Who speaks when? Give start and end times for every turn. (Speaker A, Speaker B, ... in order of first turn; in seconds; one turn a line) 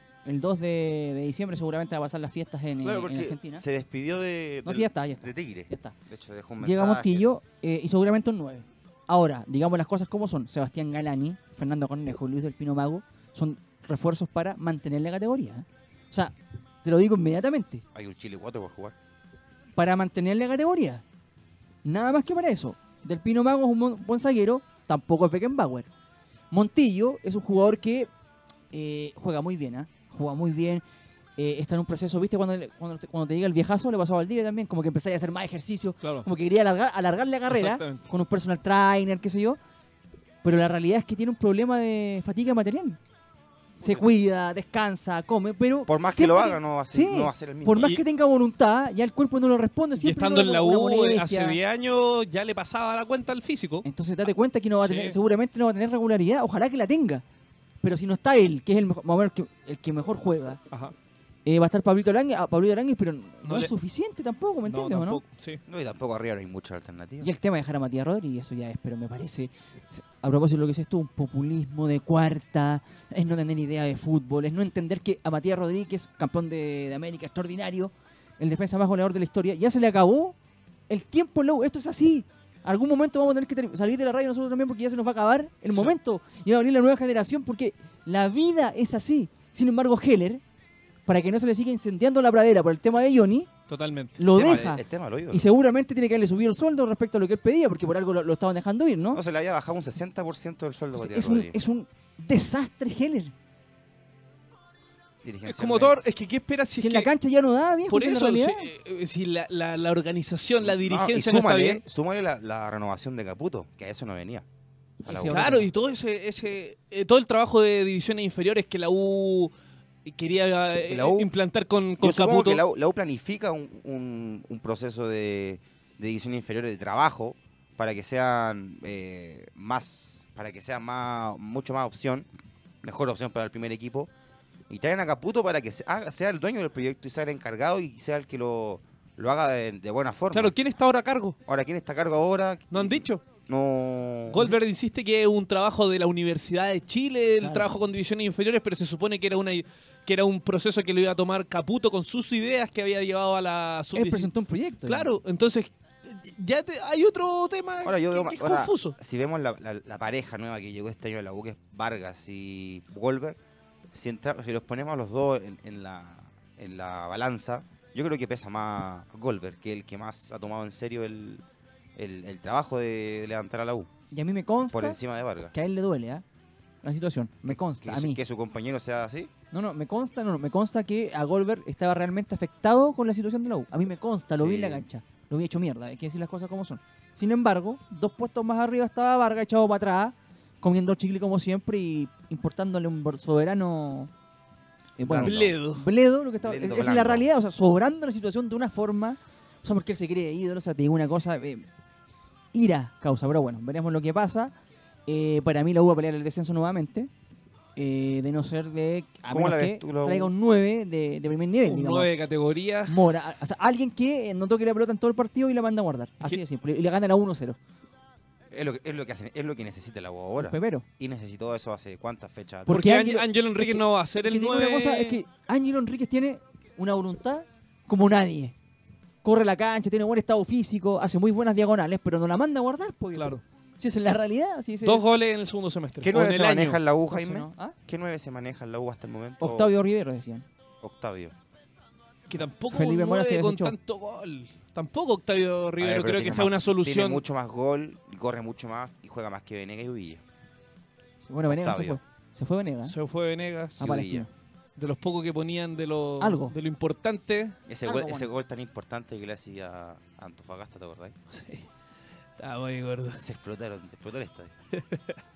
Speaker A: 0.2-3.6
Speaker B: 2.8-7.3
Speaker A: 4.7-5.9
Speaker A: 6.6-17.8
Speaker B: 17.9-18.9
Speaker A: 19.8-21.0
Speaker A: 21.8-25.9
Speaker A: 26.5-28.1
Speaker A: 28.7-30.8
Speaker A: 31.4-39.6
Speaker C: 36.0-36.3
Speaker C: 37.5-38.1
Speaker A: 40.4-43.0
Speaker A: 43.8-51.6
Speaker B: 45.9-48.0
Speaker C: 50.0-53.9
Speaker A: 53.8-57.2
Speaker C: 54.8-55.1
Speaker A: 57.8-60.6
Speaker A: 61.5-65.2
Speaker C: 63.5-63.7
Speaker C: 64.7-65.6
Speaker B: 65.7-67.3
Speaker A: 67.2-80.3
Speaker A: 80.9-90.4
Speaker A: 91.1-93.5
Speaker C: 93.7-94.2
Speaker A: 94.2-99.2
Speaker B: 94.3-95.5
Speaker B: 99.1-101.6
Speaker A: 101.0-103.3
Speaker B: 105.2-106.0
Speaker C: 105.5-107.1
Speaker A: 106.8-108.7
Speaker C: 107.9-111.8
Speaker B: 110.6-114.5
Speaker A: 115.0-115.7
Speaker B: 115.1-115.7
Speaker C: 115.3-119.5
Speaker C: 120.0-122.6
Speaker B: 120.9-121.3
Speaker B: 122.0-132.3
Speaker B: 132.8-134.1
Speaker B: 134.7-140.5
Speaker C: 140.3-141.4
Speaker B: 141.5-144.4
Speaker C: 142.7-143.2
Speaker C: 144.3-154.3
Speaker A: 147.4-147.7
Speaker A: 153.9-155.1
Speaker C: 154.9-159.0
Speaker B: 157.8-163.4
Speaker B: 163.9-171.4
Speaker B: 172.0-173.9
Speaker A: 174.1-175.0
Speaker B: 174.7-175.5
Speaker A: 175.5-176.2
Speaker A: 176.8-178.2
Speaker B: 177.5-179.3
Speaker A: 179.5-194.1
Speaker B: 184.4-184.8
Speaker A: 195.0-201.7
Speaker B: 195.0-195.6
Speaker C: 195.2-195.9
Speaker B: 196.4-197.3
Speaker A: 202.5-204.5
Speaker A: 205.1-207.1
Speaker A: 207.8-212.1
Speaker B: 209.3-210.3
Speaker C: 211.7-213.1
Speaker A: 212.9-217.6
Speaker B: 218.5-222.8
Speaker A: 220.4-220.9
Speaker A: 222.7-228.6
Speaker C: 222.7-225.2
Speaker A: 229.2-235.0
Speaker C: 233.2-233.4
Speaker C: 234.8-236.8
Speaker B: 236.0-239.7
Speaker A: 237.1-237.8
Speaker A: 239.4-240.5
Speaker B: 240.8-241.3
Speaker C: 242.3-247.2
Speaker A: 242.4-243.8
Speaker B: 245.8-250.2
Speaker A: 251.3-252.9
Speaker B: 251.5-252.0
Speaker C: 252.9-253.9
Speaker B: 253.8-254.3
Speaker A: 253.8-254.3
Speaker C: 254.8-257.6
Speaker A: 256.2-256.6
Speaker B: 257.7-261.2
Speaker A: 257.9-258.3
Speaker C: 261.3-261.7
Speaker C: 262.4-263.2
Speaker B: 263.1-264.5
Speaker C: 264.7-265.2